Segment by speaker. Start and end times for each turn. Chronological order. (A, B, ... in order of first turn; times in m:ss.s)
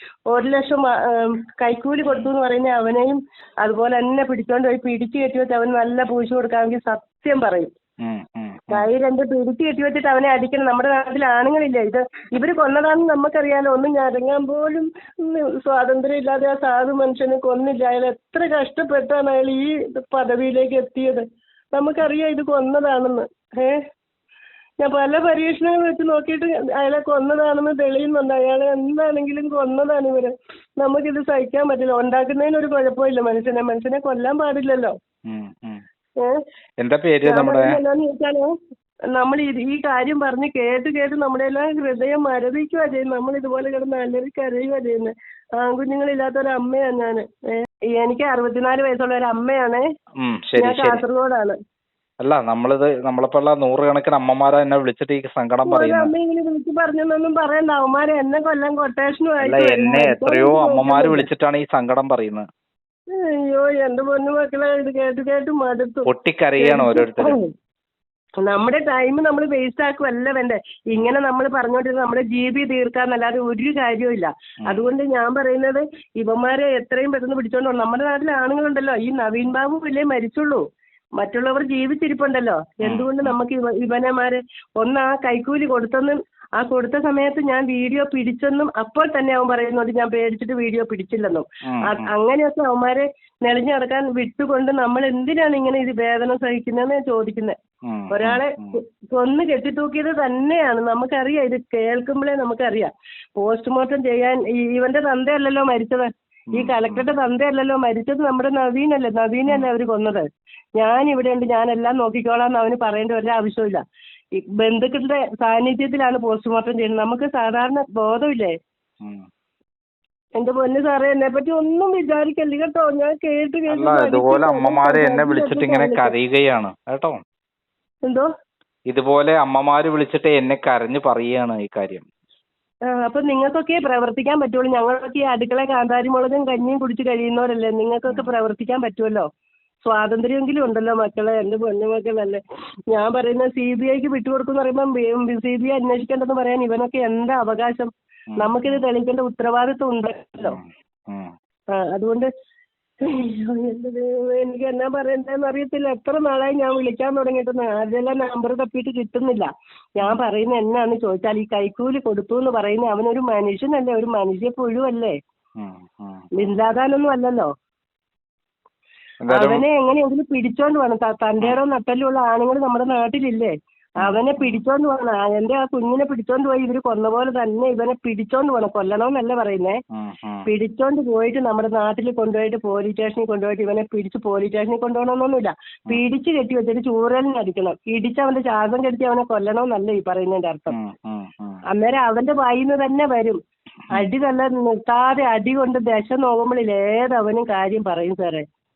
0:00.3-0:07.7 A
0:02.0-0:02.3 B
0:08.0-0:08.8 B
0:08.7-0:23.8 A
0:24.8-0:35.0 A
0:35.2-0:35.8 B
0:36.8-0:37.8 B
0:37.2-0:38.5 A
0:39.1-0:49.8 A
0:50.2-0:51.0 B
0:50.6-0:51.5 A
0:52.2-0:56.1 B
0:55.7-1:01.3 A
0:59.4-1:02.4 B
1:03.1-1:06.0 A
1:06.0-1:07.4 B
1:06.6-1:07.5 A
1:08.4-1:20.6 A
1:14.6-1:14.9 B
1:21.2-1:37.6 A
1:22.8-1:23.4 B
1:31.7-1:32.1 B
1:37.8-1:38.8 B
1:38.1-1:38.6 A
1:39.1-1:50.2 A
1:46.5-1:47.1 B
1:50.8-1:53.8 A
1:54.4-1:58.5 A
2:00.4-2:06.1 A
2:03.7-2:07.2 B
2:08.9-2:12.0 B
2:12.9-2:19.2 A
2:19.8-2:22.4 A
2:22.9-2:30.6 A
2:28.3-2:28.8 B
2:30.4-2:31.3 B
2:31.8-2:32.3 A
2:33.0-2:45.1 A
2:45.6-2:46.6 B
2:46.4-2:47.5 A
2:49.2-2:49.6 B
2:49.3-2:59.8 A
2:54.0-2:54.6 B
2:59.9-3:00.4 B
3:00.4-3:10.7 A
3:10.7-3:11.6 B
3:11.7-3:13.4 A
3:13.9-3:18.4 A